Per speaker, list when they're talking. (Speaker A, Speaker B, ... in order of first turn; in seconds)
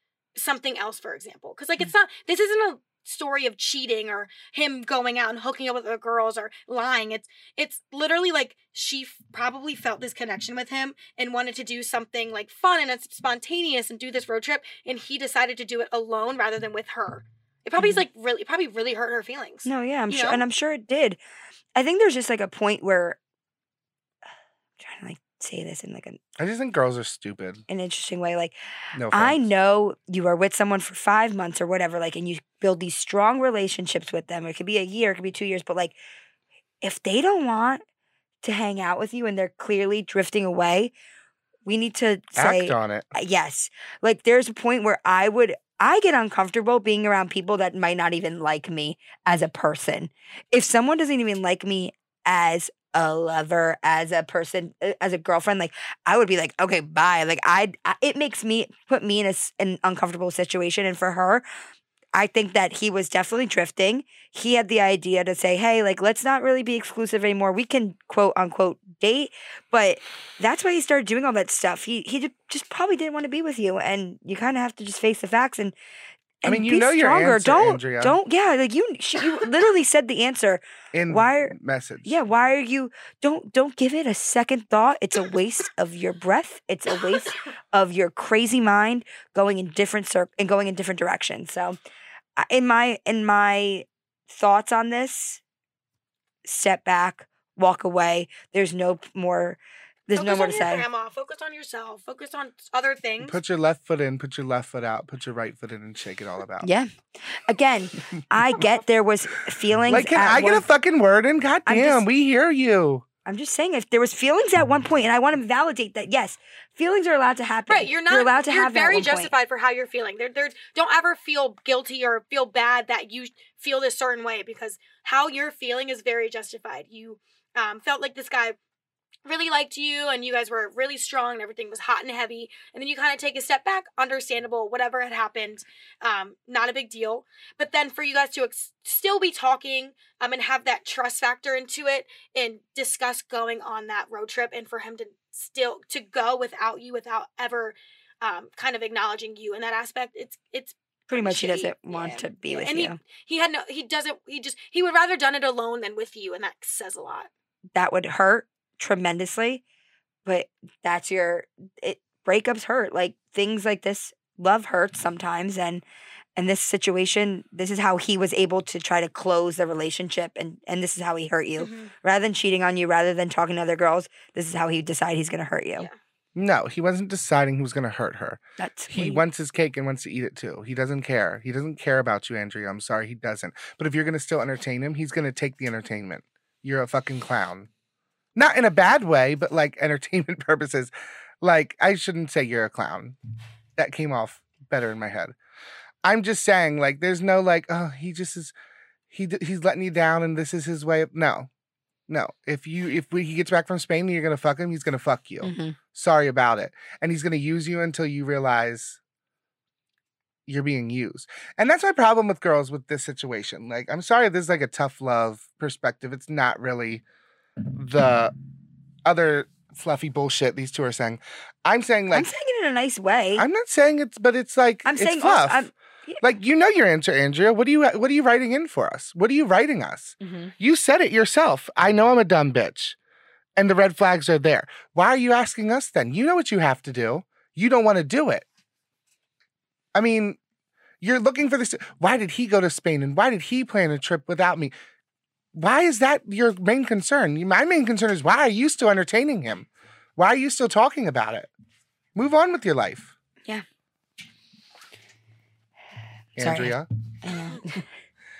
Speaker A: 0.3-20.4, 100.2-103.4, 117.7-128.6, 129.2-157.3, 171.6-171.9
Speaker B: 19.6-21.2, 21.7-23.2, 24.8-26.2, 27.7-28.5, 29.1-36.0, 36.8-37.8, 38.4-40.9, 41.6-61.4, 62.1-75.8, 76.4-81.5, 82.0-91.8, 92.4-95.4, 96.4-100.8, 106.6-110.7, 111.7-112.0, 113.2-119.3, 151.1-153.0, 157.7-159.6, 160.2-165.8, 166.3-175.9, 178.6-179.2, 205.4-205.8, 222.1-223.4, 224.8-226.2, 230.2-230.5, 256.4-257.9
Speaker C: 26.4-27.6, 28.9-29.4, 42.4-43.1, 76.4-78.2, 80.9-82.2, 103.2-106.7, 109.9-113.0, 176.3-187.7, 188.3-190.9, 191.4-193.2, 193.8-195.3, 196.0-198.5, 199.1-201.5, 202.1-209.0, 210.5-217.0, 217.7-218.3, 219.0-222.3, 223.4-225.7, 226.2-233.0, 233.6-238.4, 239.9-240.4, 241.0-244.7, 245.5-251.5, 252.1-253.1, 256.4-256.9